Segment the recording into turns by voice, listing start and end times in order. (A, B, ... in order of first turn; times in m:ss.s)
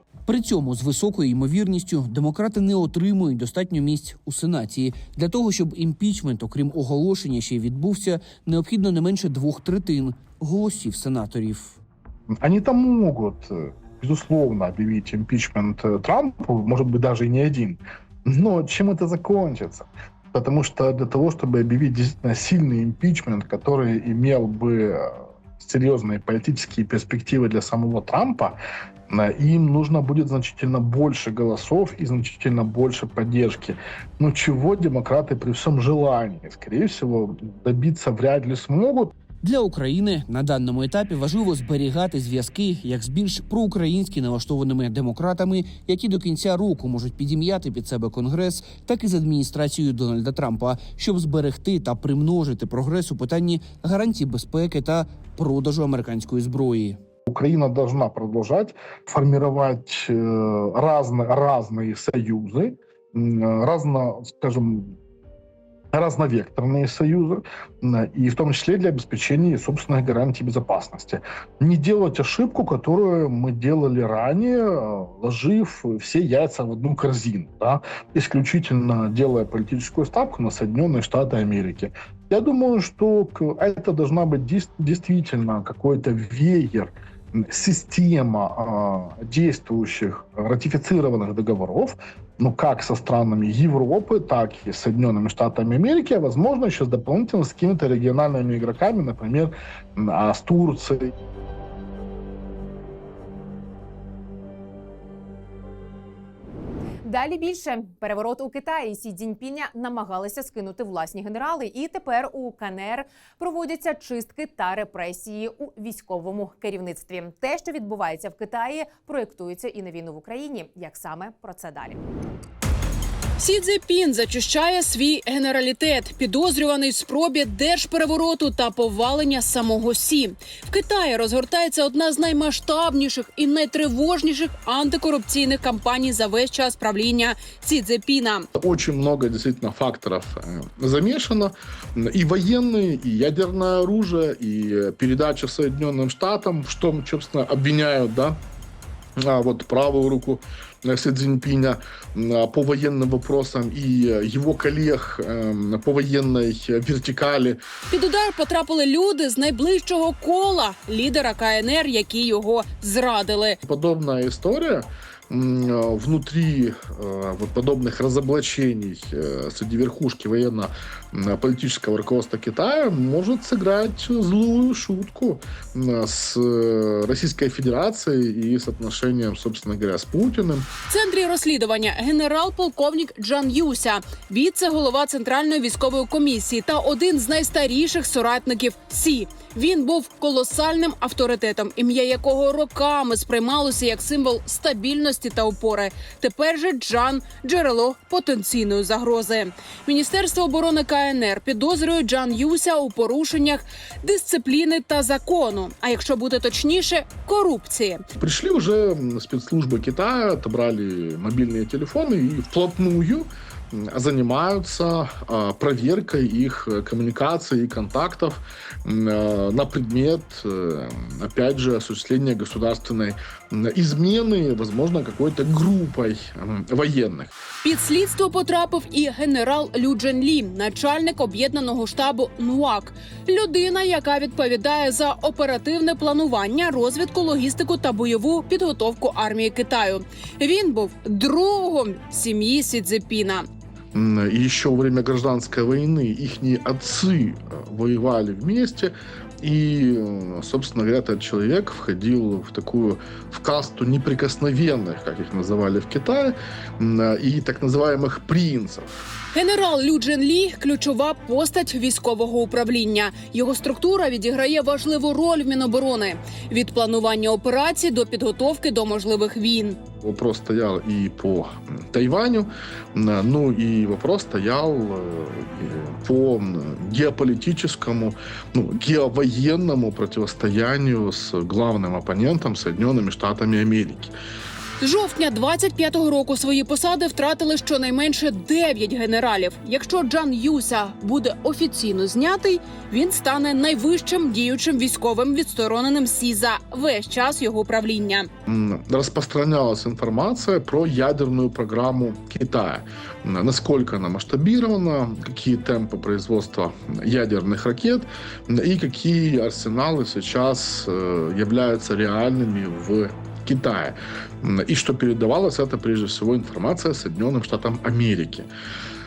0:00.3-0:11.8 A
0:12.3-0:28.6 B
0:29.1-0:39.1 B
0:39.4-0:57.0 A
0:57.3-1:05.0 B
1:05.9-1:41.1 B
1:47.0-2:02.0 C
2:03.4-2:18.5 D
2:18.6-2:28.4 B
2:29.2-2:37.6 B
2:37.9-2:43.6 D
2:43.6-3:00.7 B
3:00.9-3:28.0 D
3:28.2-3:47.4 B
3:47.6-4:03.5 D
4:03.9-4:19.0 B
4:19.3-4:29.8 D
4:30.0-4:44.1 B
4:44.8-4:58.3 D
4:58.5-5:18.5 B